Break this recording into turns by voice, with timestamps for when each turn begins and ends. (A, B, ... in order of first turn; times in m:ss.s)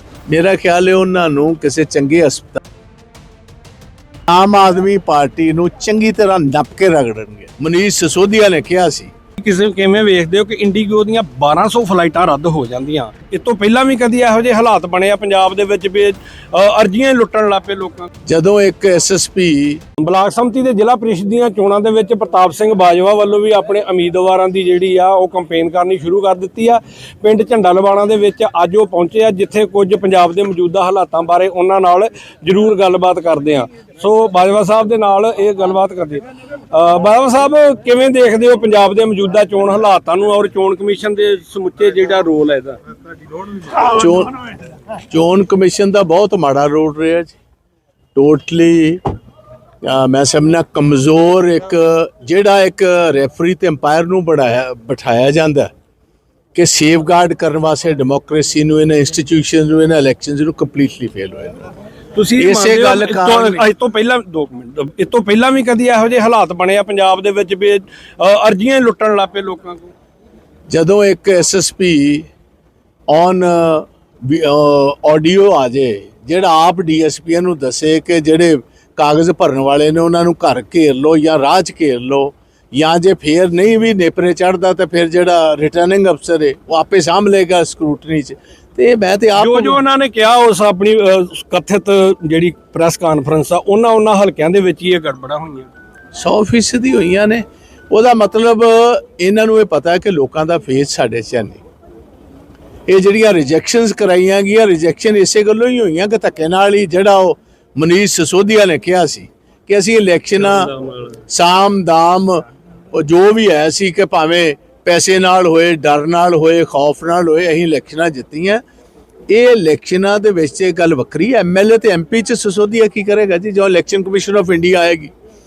0:00.3-0:02.6 A
0:04.3-0:09.1 A
0:09.4-0:18.1 B
0:18.2-0:19.8 A
0:20.0-0:42.8 B
0:43.7-0:44.4 A
0:45.1-0:47.4 A
0:48.1-0:49.0 A
0:49.8-0:55.7 A
0:56.5-1:01.7 A
1:02.1-1:09.9 B
1:02.4-1:03.6 A
1:10.7-1:12.3 A
1:13.1-1:29.8 A
1:29.4-1:35.7 B
1:36.1-1:41.6 A
1:42.9-1:50.7 A
1:50.8-1:51.2 B
1:51.3-1:58.6 A
1:59.3-2:05.1 A